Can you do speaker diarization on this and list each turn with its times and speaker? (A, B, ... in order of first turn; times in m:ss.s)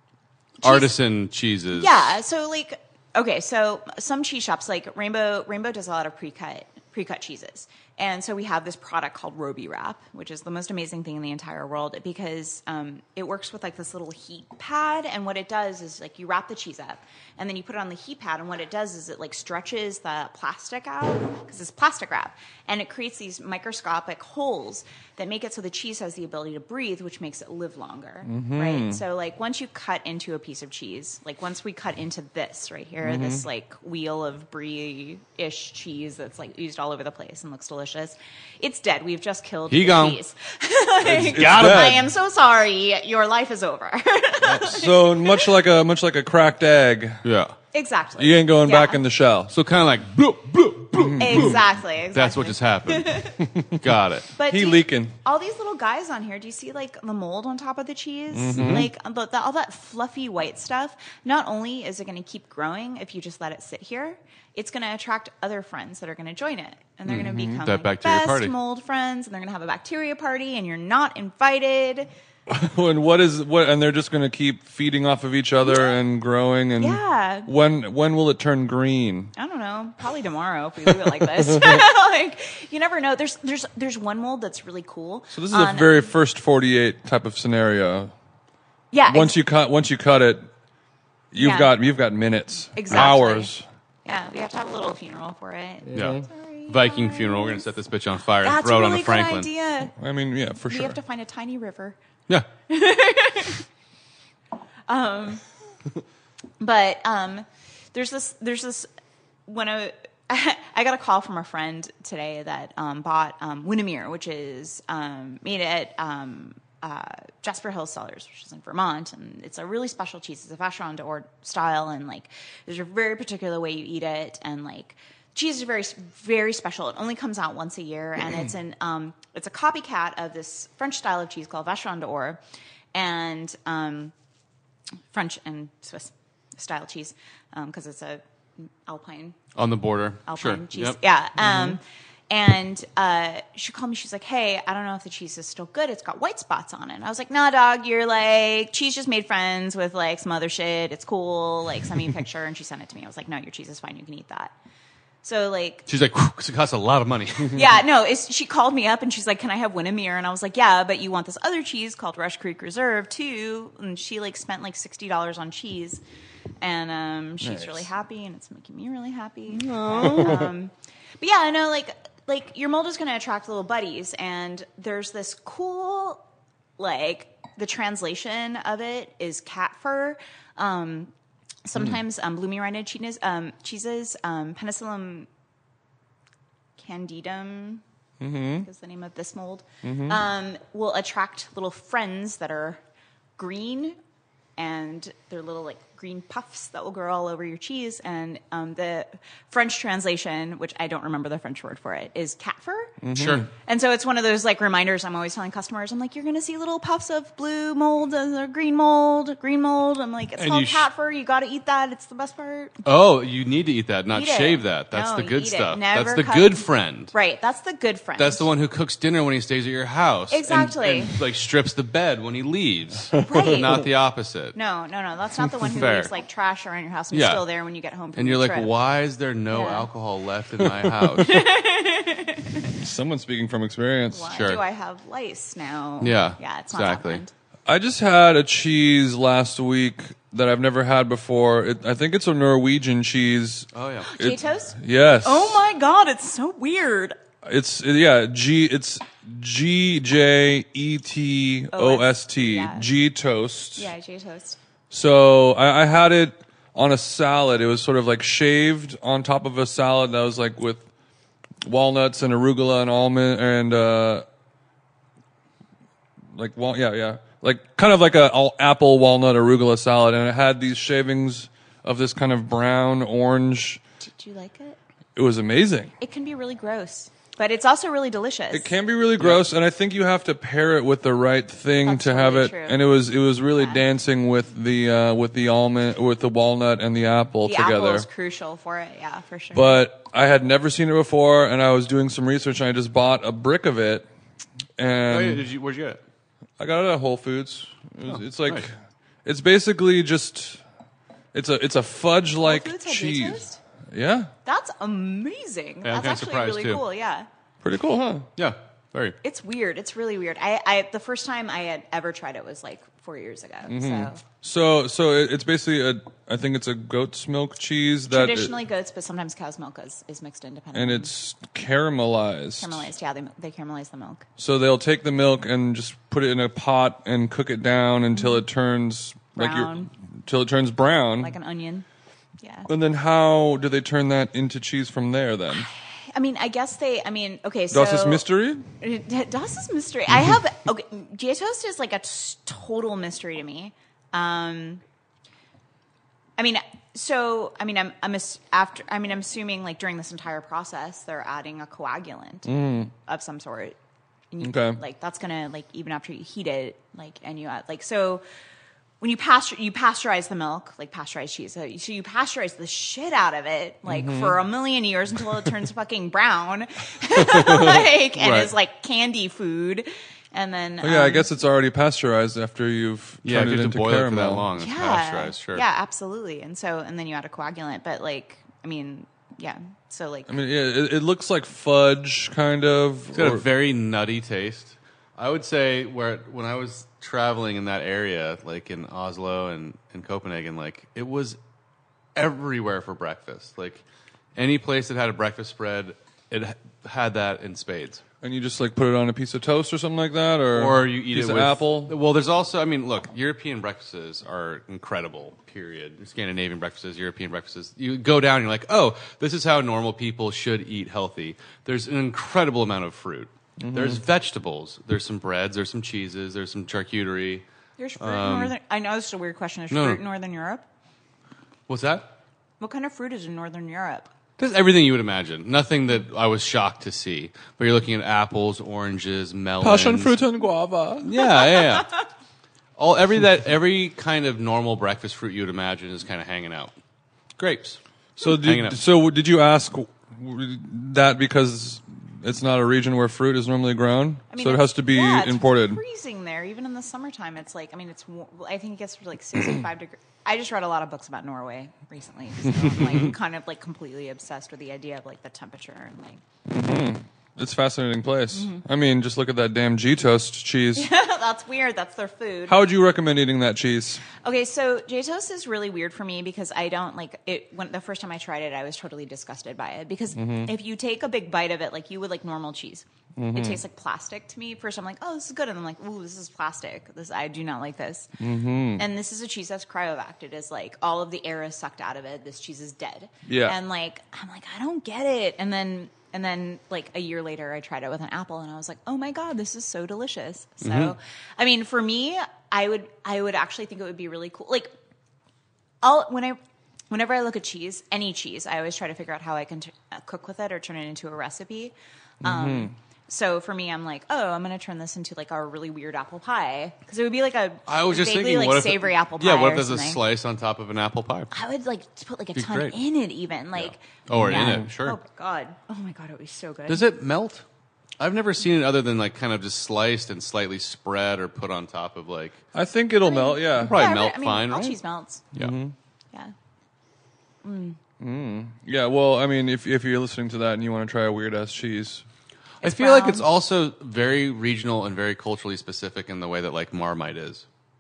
0:00.6-0:02.1 A
0:00.6-0:00.9 B
0:01.7-0:45.5 B
0:28.2-0:29.0 C
0:33.0-0:33.4 C
0:39.7-0:40.2 A
0:41.1-0:42.0 C
0:41.1-0:42.0 A
0:44.4-0:47.2 C
0:47.2-0:47.6 A
0:47.7-0:49.0 B
0:48.2-0:49.5 C
0:49.5-0:54.3 A
0:51.0-0:51.6 C
0:51.2-0:53.4 B
0:53.5-0:53.8 C
0:54.4-1:12.1 B
0:54.5-0:55.2 C
0:58.3-0:58.9 C
0:58.6-0:58.8 A
1:07.1-1:08.5 A
1:07.1-1:07.6 C
1:12.5-1:19.3 C
1:15.7-1:15.9 B
1:16.8-1:17.5 B
1:19.4-1:26.1 B
1:20.9-1:21.8 C
1:25.3-1:28.1 C
1:28.9-1:29.4 B
1:29.1-1:30.5 C
1:31.3-1:33.6 C
1:31.4-1:31.7 B
1:32.8-1:33.5 B
1:34.0-1:37.7 B
1:35.9-1:36.2 C
1:35.9-1:39.5 A
1:38.4-1:39.9 B
1:40.0-1:41.0 C
1:40.7-1:42.0 B
1:42.7-1:43.6 B
1:44.9-1:45.4 B
1:46.6-1:48.9 B
1:49.5-2:12.4 B
2:12.9-2:14.1 B
2:15.1-2:19.4 B
2:19.6-2:21.6 A
2:20.3-2:34.5 B
2:35.2-2:35.9 B
2:35.9-2:37.8 A
2:37.5-2:46.0 B
2:46.6-2:56.2 B
2:47.4-2:47.8 C
2:49.6-2:50.4 A
2:50.0-2:50.5 C
2:56.8-3:01.1 B
3:01.6-3:05.3 B
3:06.8-3:07.8 B
3:08.2-3:08.7 C
3:08.4-3:12.8 B
3:09.8-3:10.2 C
3:13.4-3:14.0 B
3:14.6-3:23.0 B
3:23.0-3:23.5 C
3:23.2-3:23.5 A
3:23.6-3:32.8 B
3:30.4-3:30.9 A
3:32.8-3:37.1 A
3:34.1-3:38.5 B
3:38.2-3:44.6 A
3:40.3-3:41.2 B
3:43.2-3:43.8 B
3:44.6-3:48.7 B
3:45.6-3:46.1 A
3:47.1-3:47.4 A
3:48.2-3:51.4 A
3:49.5-3:49.9 B
3:50.7-3:51.3 C
3:51.2-3:52.7 B
3:52.7-3:54.4 C
3:54.1-3:57.3 B
3:54.3-3:54.6 A
3:56.0-3:57.2 A
3:57.7-4:05.6 C
4:03.7-4:04.1 A
4:04.1-4:07.2 B
4:07.4-4:13.9 C
4:11.7-4:12.9 B
4:13.8-4:14.6 B
4:14.9-4:20.9 C
4:21.6-4:24.2 C
4:26.3-4:33.8 C
4:34.0-4:34.8 B
4:35.2-4:35.9 C
4:36.0-4:38.7 B
4:38.5-4:48.1 C
4:41.8-4:42.8 B
4:47.4-4:49.8 B
4:49.5-4:54.1 C
4:54.8-4:55.4 C
4:55.1-4:56.0 A
4:56.6-4:58.7 C
4:58.1-4:58.7 A
4:59.2-5:00.6 C
5:01.3-5:04.3 C
5:02.4-5:03.6 B
5:04.4-5:07.3 B
5:05.8-5:06.8 A
5:07.6-5:08.3 C
5:08.4-5:09.2 A
5:09.2-5:14.2 B
5:13.7-5:18.5 C
5:18.1-5:21.1 B
5:20.7-5:22.9 C
5:22.6-5:24.3 B
5:24.4-5:31.3 C
5:28.1-5:28.4 B
5:29.4-5:29.9 B
5:31.2-5:31.9 B
5:32.4-5:32.7 B
5:32.7-5:35.7 C
5:35.5-5:38.3 B
5:37.7-5:38.7 C
5:38.8-5:44.8 B
5:46.4-5:53.8 B
5:52.4-5:52.9 C
5:54.3-5:58.2 B
5:54.4-5:54.8 C
5:59.0-6:11.3 B
6:03.9-6:04.4 C
6:07.4-6:07.8 C
6:08.2-6:08.5 A
6:10.8-6:14.5 C
6:13.2-6:15.6 A
6:14.6-6:20.3 B
6:20.3-6:23.5 C
6:23.1-6:31.4 A
6:32.2-6:33.8 A
6:34.4-6:38.0 A
6:38.2-6:42.0 C
6:40.5-6:57.4 A
6:53.6-6:54.0 C
6:57.8-7:00.6 B
6:58.0-6:58.5 A
6:59.7-7:00.0 A
7:01.7-7:02.1 A
7:02.6-7:04.1 B
7:04.4-7:10.2 A
7:09.6-7:11.1 C
7:11.0-7:12.0 A
7:12.8-7:16.7 A
7:17.4-7:18.8 A
7:18.2-7:25.8 C
7:24.3-7:36.2 B
7:36.5-7:40.9 C
7:38.3-7:38.6 B
7:40.8-7:42.6 B
7:42.5-7:44.0 C
7:44.2-7:58.1 B
7:50.2-7:50.5 C
7:53.2-7:53.6 C
7:58.2-7:58.8 C
7:58.8-8:14.7 B
8:03.3-8:03.6 C
8:10.6-8:10.9 A
8:15.8-8:16.4 B
8:16.9-8:30.0 B
8:22.2-8:22.7 C
8:27.7-8:31.3 A
8:31.3-8:36.9 B
8:32.4-8:32.8 A
8:33.6-8:35.0 A
8:34.2-8:34.7 C
8:36.7-8:37.4 A
8:38.0-8:42.4 A
8:42.5-8:43.8 C
8:43.0-8:45.2 B
8:43.6-8:44.8 A
8:45.4-8:45.7 C
8:47.4-8:47.8 B
8:48.0-8:52.0 C
8:52.6-8:53.3 B
8:52.6-8:57.4 A